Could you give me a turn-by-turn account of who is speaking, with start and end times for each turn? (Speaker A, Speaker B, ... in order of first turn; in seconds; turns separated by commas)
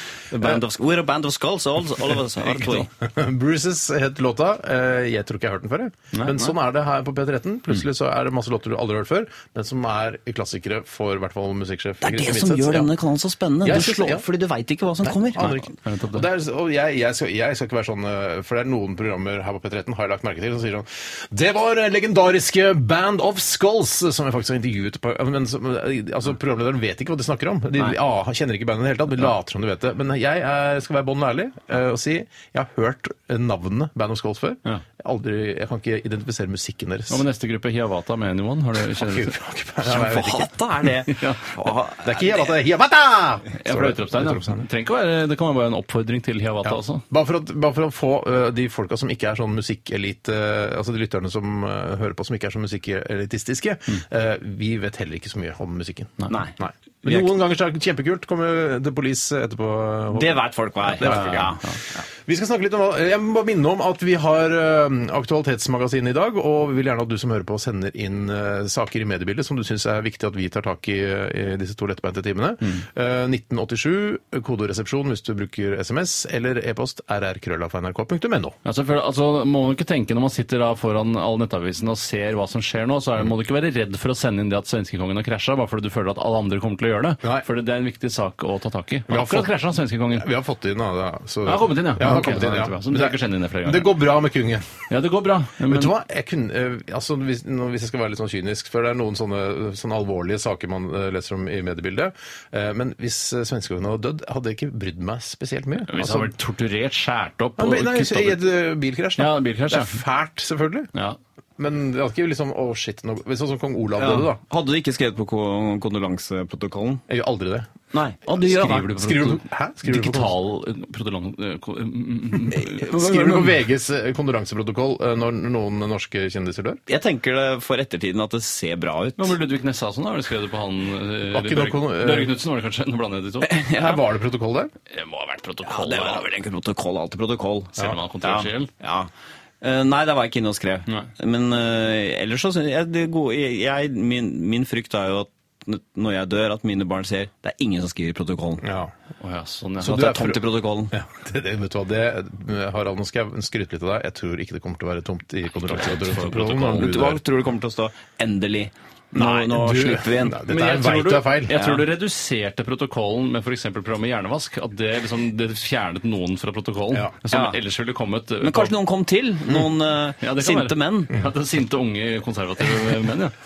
Speaker A: 0.3-2.9, Speaker B: 2.8-12.9, Speaker C: 6.1-6.4, Speaker A: 12.0-15.5, Speaker B: 13.6-14.2, Speaker B: 15.0-37.2, Speaker C: 15.4-16.2, Speaker C: 37.1-39.3, Speaker B: 38.9-40.5, Speaker A: 39.8-42.5, Speaker C: 41.1-41.4, Speaker B: 42.0-44.7, Speaker C: 43.6-47.0, Speaker B: 46.6-61.6, Speaker A: 60.1-61.6, Speaker C: 61.0-61.7, Speaker B: 62.2-78.6, Speaker C: 78.6-90.3, Speaker B: 89.1-89.5, Speaker B: 90.1-94.7, Speaker C: 91.4-94.0, Speaker C: 94.9-95.9, Speaker B: 95.7-106.3, Speaker C: 105.9-108.4, Speaker B: 107.6-110.9, Speaker C: 109.2-110.0, Speaker B: 111.6-114.4, Speaker A: 114.0-117.0, Speaker B: 117.1-117.7, Speaker A: 117.9-118.2, Speaker C: 118.2-123.1, Speaker B: 118.3-120.3, Speaker B: 122.6-126.8, Speaker A: 122.9-123.3, Speaker A: 126.9-129.3, Speaker C: 129.2-133.6, Speaker B: 131.3-132.3, Speaker A: 133.4-134.0, Speaker B: 133.8-134.7, Speaker C: 134.9-136.3, Speaker A: 135.6-139.1, Speaker C: 137.8-138.7, Speaker A: 139.6-148.6, Speaker B: 148.6-148.9, Speaker C: 149.2-150.2, Speaker B: 149.8-157.2, Speaker A: 149.8-150.9, Speaker C: 155.6-156.9, Speaker A: 156.7-160.4, Speaker B: 159.1-161.6, Speaker C: 160.4-168.7, Speaker A: 161.5-161.8, Speaker A: 167.3-167.6, Speaker A: 168.4-171.1, Speaker C: 170.2-173.3